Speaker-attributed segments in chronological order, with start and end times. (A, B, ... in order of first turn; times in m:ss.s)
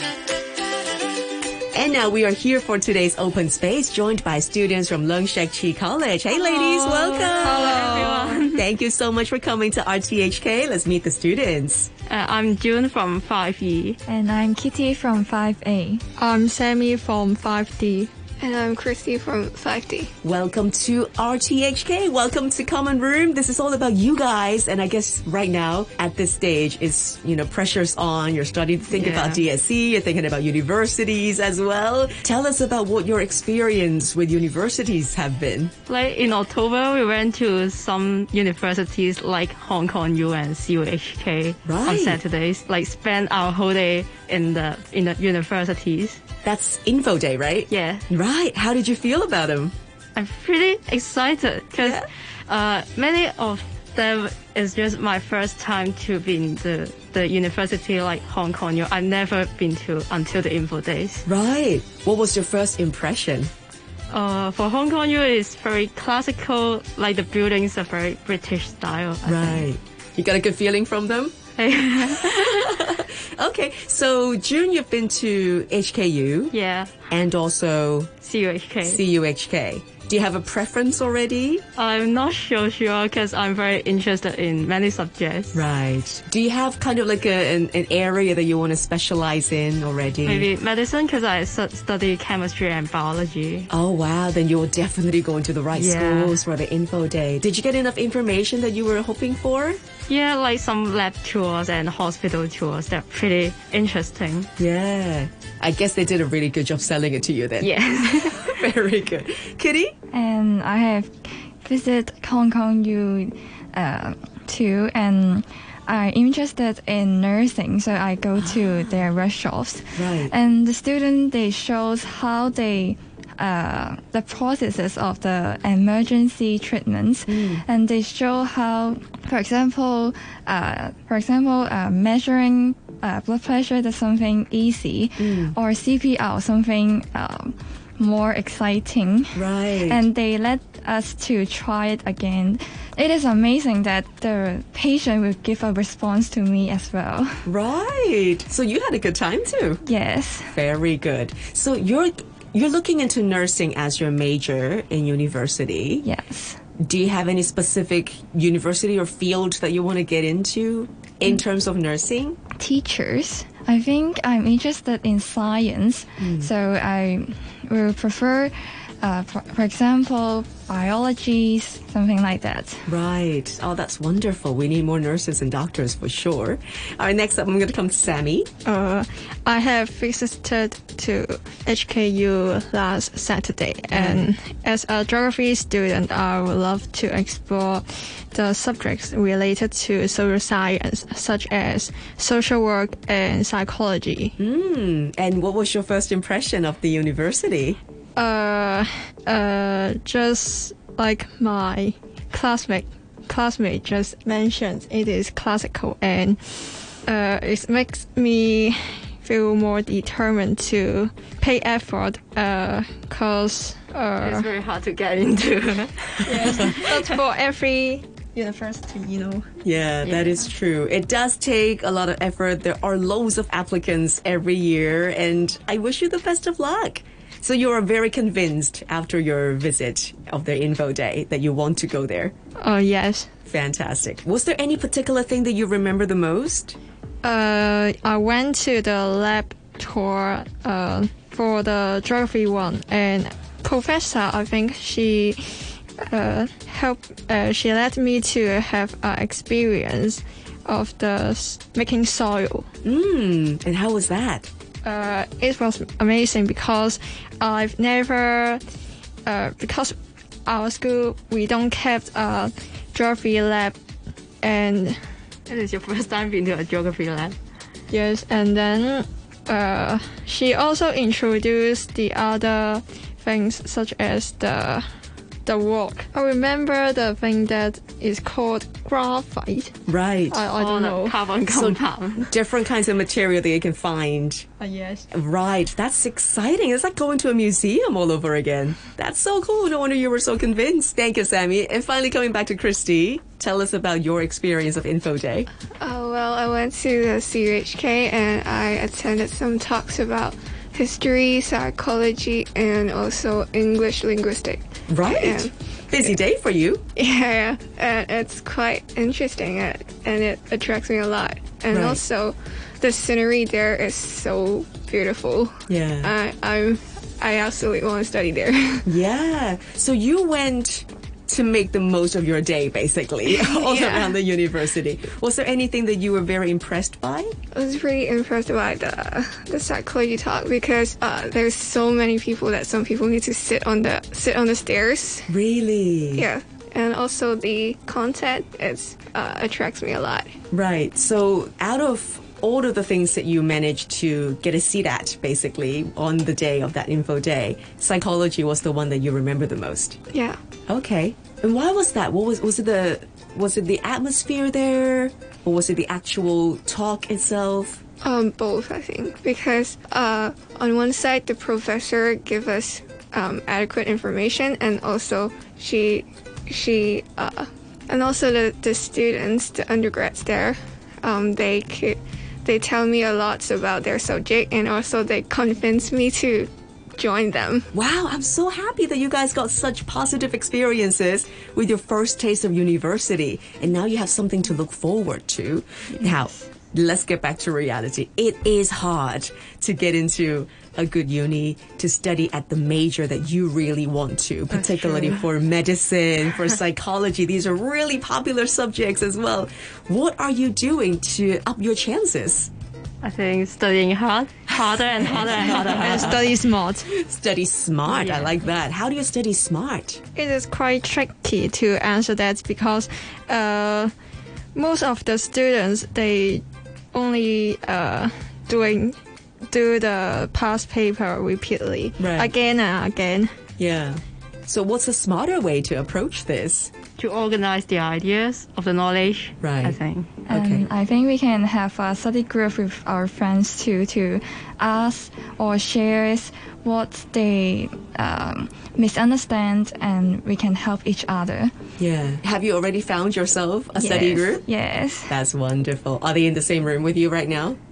0:01.7-0:08.0 A
0:06.4-0:08.6 B
0:07.4-0:08.5 C
0:08.5-0:11.9 A
0:12.1-0:14.0 B
0:14.1-0:16.0 D
0:16.2-0:18.1 C
0:18.4-0:20.1 E
0:20.2-0:35.7 A
0:28.9-0:29.4 B
0:35.9-0:46.2 B
0:41.6-0:42.2 A
0:46.4-0:49.8 A
0:47.7-0:48.0 B
0:50.2-1:01.2 B
0:51.8-0:52.1 A
1:01.3-1:03.5 A
1:04.1-1:09.7 B
1:09.3-1:11.4 A
1:11.6-1:12.7 B
1:12.1-1:16.5 A
1:16.5-1:16.9 B
1:17.1-1:18.1 A
1:18.2-1:19.0 B
1:18.8-1:21.6 A
1:21.8-1:25.6 B
1:25.5-1:30.5 A
1:30.2-1:33.7 B
1:33.7-1:39.8 A
1:35.7-1:36.4 B
1:40.1-1:44.5 B
1:44.6-1:50.0 A
1:47.6-1:48.6 B
1:50.1-1:51.1 D
1:51.6-2:27.4 D
2:00.0-2:00.3 A
2:07.3-2:07.6 A
2:15.2-2:15.6 A
2:19.4-2:20.0 A
2:27.5-2:29.8 A
2:29.8-2:30.5 D
2:30.5-2:36.1 A
2:36.0-2:36.6 D
2:36.8-2:42.4 A
2:42.6-2:52.8 D
2:46.2-2:46.5 A
2:52.9-2:58.5 A
2:58.6-3:14.4 C
3:03.9-3:04.3 A
3:14.4-3:17.8 A
3:18.2-3:34.5 C
3:34.2-3:37.2 B
3:36.2-3:39.5 C
3:39.6-3:52.3 A
3:40.1-3:40.4 B
3:52.6-3:53.3 C
3:53.5-3:56.8 A
3:57.2-4:12.7 C
4:12.8-4:14.5 A
4:14.8-4:18.6 C
4:19.2-4:20.0 C
4:20.5-4:23.8 C
4:24.4-4:25.0 C
4:25.5-4:27.4 B
4:27.9-4:34.8 C
4:35.5-4:39.8 C
4:39.9-4:40.5 A
4:40.3-4:41.3 C
4:40.5-4:42.3 B
4:41.5-4:44.4 A
4:44.6-4:45.1 C
4:45.1-4:55.5 A
4:55.8-5:05.5 E
5:04.9-5:06.8 A
5:07.0-5:18.9 E
5:11.7-5:12.0 A
5:15.7-5:16.1 A
5:18.9-5:27.3 A
5:23.3-5:24.1 E
5:27.5-5:35.3 E
5:35.3-5:36.3 A
5:36.2-5:40.3 E
5:40.5-5:50.0 A
5:50.1-5:50.4 E
5:50.7-5:57.8 A
5:58.0-6:17.7 E
6:17.7-6:42.5 A
6:34.5-6:35.2 B
6:43.0-6:46.2 B
6:45.3-6:50.0 A
6:45.5-6:46.9 C
6:47.9-6:48.4 B
6:50.2-6:53.9 C
6:54.6-6:59.0 C
6:59.5-7:03.3 C
7:02.0-7:02.3 A
7:03.6-7:06.7 A
7:07.0-7:10.2 B
7:09.4-7:09.8 A
7:10.3-7:10.7 A
7:10.3-7:21.5 D
7:21.8-7:24.5 A
7:23.8-7:25.1 D
7:25.1-7:27.6 A